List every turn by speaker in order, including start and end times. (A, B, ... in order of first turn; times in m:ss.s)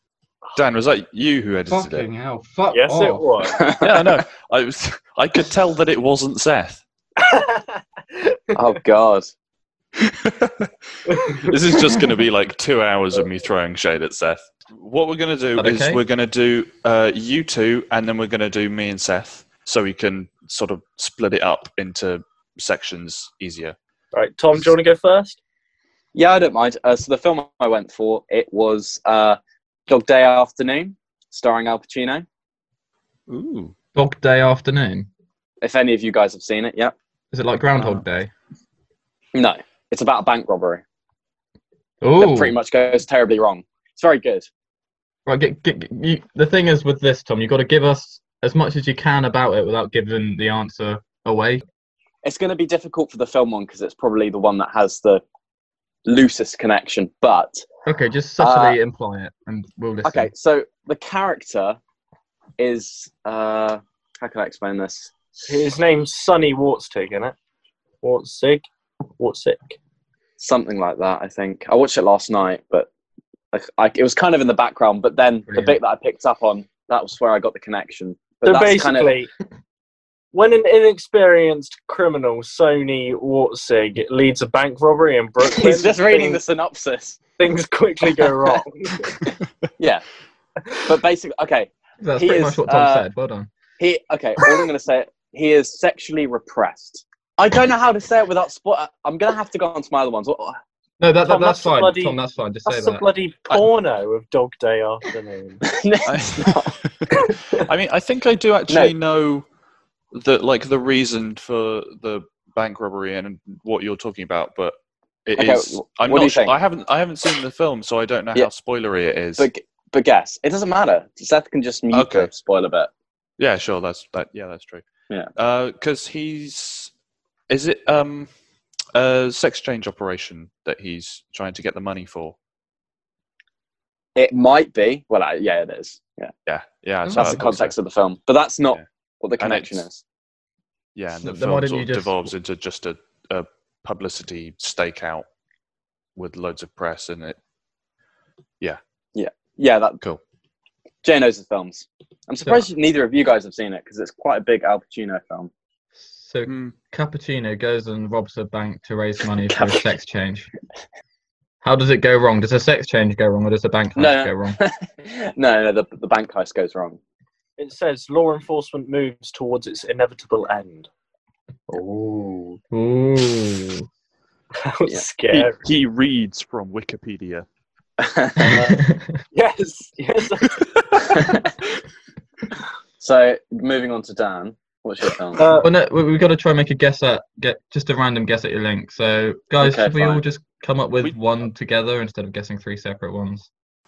0:00.6-0:02.1 A
0:01.7-0:03.3 B
0:02.7-0:03.6 C
0:03.5-0:04.2 D
0:03.8-0:06.8 A
0:07.2-0:08.6 C
0:08.5-0:09.3 D
0:10.0-0:10.7 A
0:11.1-0:11.5 C
0:11.4-0:23.7 A
0:15.6-0:16.0 B
0:24.1-0:25.4 C
0:26.1-0:32.2 D
0:33.3-0:33.7 A
0:33.9-0:35.1 B
0:35.6-0:36.9 D
0:37.3-0:38.3 B
0:39.3-0:40.8 D
0:42.0-0:42.5 B
0:42.2-0:44.5 D
0:45.2-0:51.6 B
0:52.2-0:55.2 D
0:56.0-0:57.6 D
0:57.8-1:00.3 B
0:58.4-0:58.8 D
1:00.0-1:01.8 D
1:02.6-1:05.1 D
1:05.5-1:07.3 C
1:08.0-1:08.7 C
1:09.2-1:09.8 C
1:10.4-1:12.9 D
1:13.5-1:19.1 D
1:15.5-1:15.8 B
1:18.4-1:19.3 C
1:20.3-1:26.4 C
1:25.4-1:27.2 D
1:27.4-1:29.2 C
1:29.8-1:30.0 D
1:30.8-1:33.0 D
1:32.0-1:33.5 B
1:33.8-1:40.6 D
1:41.0-1:43.0 B
1:41.2-1:45.6 C
1:45.6-1:46.8 D
1:46.0-1:49.4 A
1:48.7-1:48.9 D
1:50.1-1:54.7 A
1:55.2-1:59.5 A
1:55.4-1:56.6 D
1:59.4-2:02.9 D
2:01.9-2:02.3 A
2:03.4-2:04.8 A
2:05.4-2:06.9 A
2:07.5-2:08.3 A
2:08.9-2:12.3 A
2:14.1-2:16.3 D
2:16.4-2:17.8 A
2:17.0-2:17.4 B
2:17.1-2:20.0 D
2:19.4-2:19.8 A
2:20.9-2:25.2 A
2:21.2-2:22.1 B
2:26.2-2:27.4 A
2:29.1-2:30.0 D
2:31.0-2:35.5 D
2:36.0-2:40.5 B
2:36.4-2:36.7 A
2:39.5-2:39.9 D
2:41.6-2:44.6 B
2:44.0-2:47.0 D
2:47.6-2:50.9 C
2:51.7-2:52.6 C
2:52.7-2:53.9 B
2:54.6-2:55.6 C
2:55.3-2:57.4 A
2:58.0-2:58.8 D
2:58.4-2:59.2 B
2:59.3-3:01.1 C
3:01.1-3:01.5 D
3:03.0-3:05.5 D
3:05.4-3:05.7 C
3:05.6-3:13.5 B
3:09.6-3:10.2 D